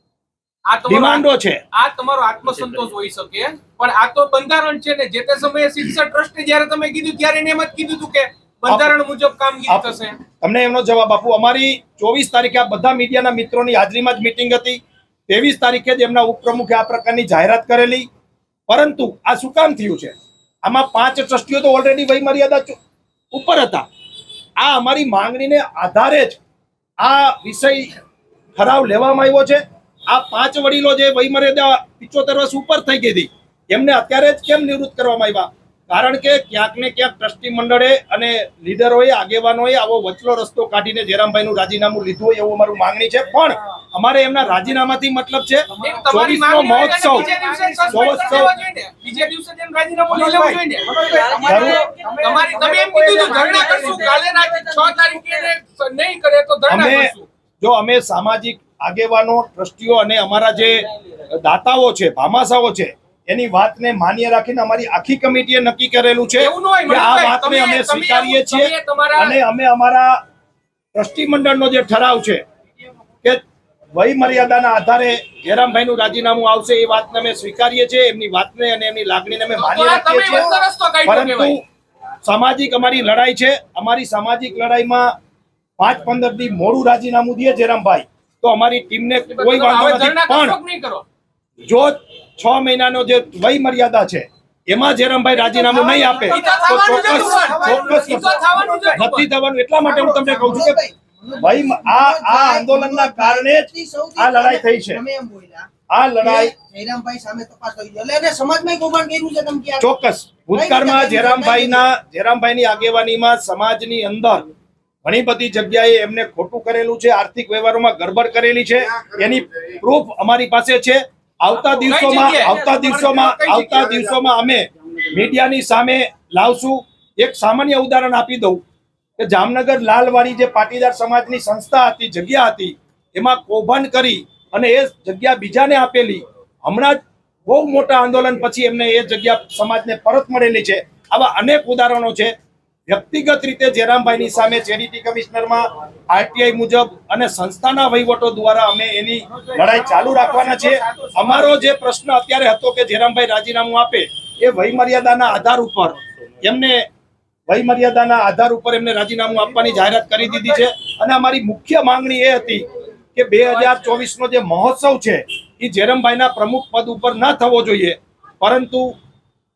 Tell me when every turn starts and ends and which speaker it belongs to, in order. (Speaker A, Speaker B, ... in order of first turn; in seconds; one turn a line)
Speaker A: 0.7-10.2
Speaker B: 0.9-1.6
Speaker B: 8.7-8.9
Speaker B: 9.7-18.1
Speaker B: 18.7-22.8
Speaker B: 23.3-23.9
Speaker B: 24.6-26.4
Speaker B: 27.0-27.9
Speaker B: 28.6-47.3
Speaker A: 45.8-57.3
Speaker C: 47.3-48.2
Speaker B: 47.9-48.5
Speaker C: 50.2-55.4
Speaker B: 51.4-51.9
Speaker B: 56.7-70.2
Speaker A: 66.4-69.4
Speaker B: 71.0-72.4
Speaker B: 74.0-80.5
Speaker A: 79.6-81.6
Speaker B: 81.0-81.6
Speaker B: 82.2-85.1
Speaker B: 85.8-90.6
Speaker A: 89.3-91.0
Speaker B: 91.6-100.8
Speaker C: 95.4-99.0
Speaker A: 96.1-99.3
Speaker C: 99.8-105.7
Speaker B: 101.4-105.0
Speaker B: 105.9-106.5
Speaker C: 106.2-109.8
Speaker B: 109.8-114.4
Speaker C: 110.5-111.9
Speaker B: 115.0-128.6
Speaker A: 121.6-123.9
Speaker B: 129.2-142.3
Speaker B: 142.9-156.8
Speaker B: 157.5-168.9
Speaker A: 163.5-164.0